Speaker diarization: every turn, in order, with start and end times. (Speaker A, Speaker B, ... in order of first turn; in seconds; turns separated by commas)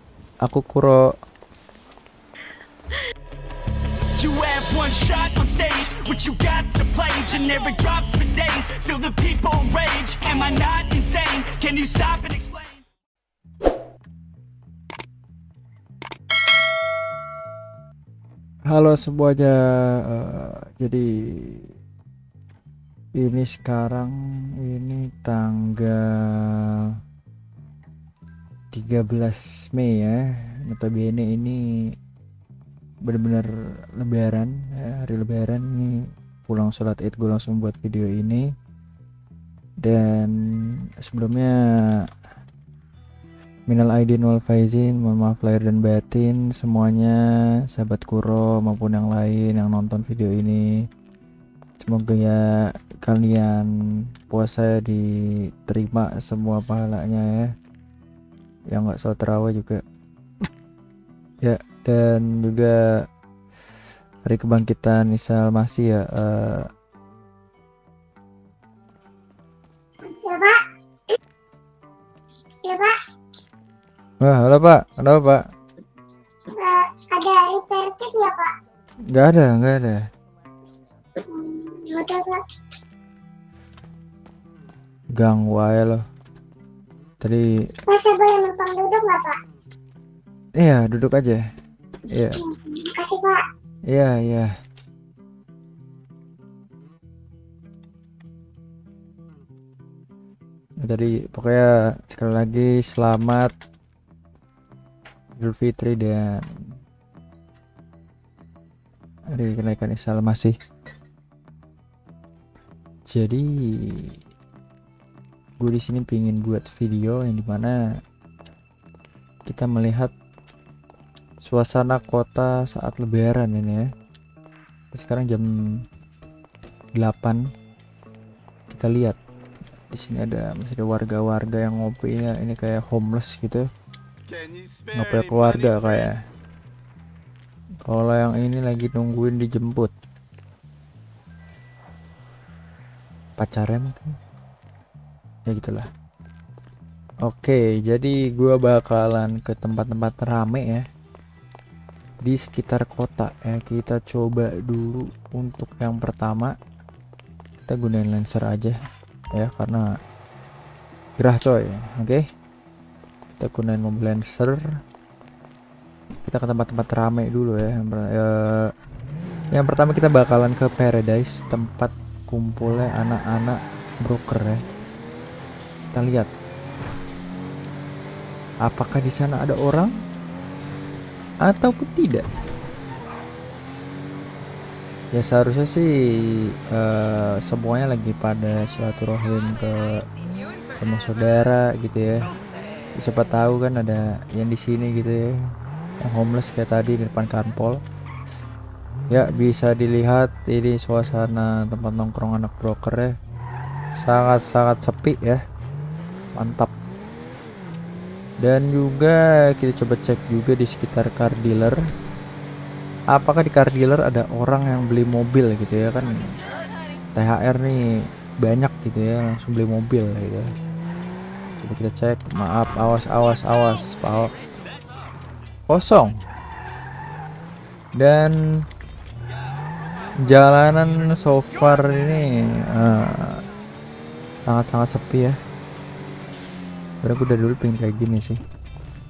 Speaker A: 0.4-1.0, Speaker B: 4.2-12.8, Speaker A: 18.7-21.7, Speaker A: 23.2-24.1, Speaker A: 24.6-26.9, Speaker A: 28.7-31.6, Speaker A: 33.0-33.5, Speaker A: 34.0-35.9, Speaker A: 36.5-38.4, Speaker A: 39.8-42.0, Speaker A: 43.7-47.2, Speaker A: 47.7-50.6, Speaker A: 51.8-52.4, Speaker A: 53.0-53.7, Speaker A: 54.3-55.0, Speaker A: 55.6-57.5, Speaker A: 58.7-59.8, Speaker A: 61.4-62.8, Speaker A: 64.3-66.7, Speaker C: 70.1-70.5, Speaker C: 72.6-72.9, Speaker A: 74.2-75.4, Speaker C: 76.5-78.5, Speaker A: 79.1-80.0, Speaker C: 81.3-82.4, Speaker A: 85.2-86.0, Speaker C: 87.9-89.4, Speaker A: 90.6-91.4, Speaker A: 92.1-92.4, Speaker C: 92.4-93.4, Speaker A: 93.9-94.5, Speaker A: 100.8-103.5, Speaker A: 105.4-106.4, Speaker A: 109.3-110.5, Speaker A: 113.1-114.1, Speaker A: 115.6-117.7, Speaker A: 119.5-120.1, Speaker A: 121.4-123.8, Speaker A: 124.9-125.5, Speaker A: 127.0-127.4, Speaker A: 128.7-129.2, Speaker A: 129.9-133.6, Speaker A: 134.9-136.1, Speaker A: 137.8-139.9, Speaker A: 143.4-144.1, Speaker A: 145.5-145.9, Speaker A: 147.2-150.8, Speaker A: 152.2-156.5, Speaker A: 157.7-158.8, Speaker A: 159.3-159.8, Speaker A: 161.2-162.2, Speaker A: 163.4-164.6, Speaker A: 166.2-168.7, Speaker A: 169.5-174.6, Speaker A: 175.9-176.3, Speaker A: 178.6-179.9, Speaker A: 181.4-182.2, Speaker A: 185.1-190.0, Speaker A: 190.8-192.3, Speaker A: 193.0-195.2, Speaker A: 196.0-197.8, Speaker A: 199.1-203.1, Speaker A: 204.0-205.4, Speaker A: 206.3-206.7, Speaker A: 208.4-211.8, Speaker A: 213.1-216.2, Speaker A: 217.2-217.8, Speaker A: 218.4-220.5, Speaker A: 221.6-224.3, Speaker A: 225.7-226.1, Speaker A: 228.0-228.3, Speaker A: 230.2-233.4, Speaker A: 234.4-235.3, Speaker A: 237.0-238.4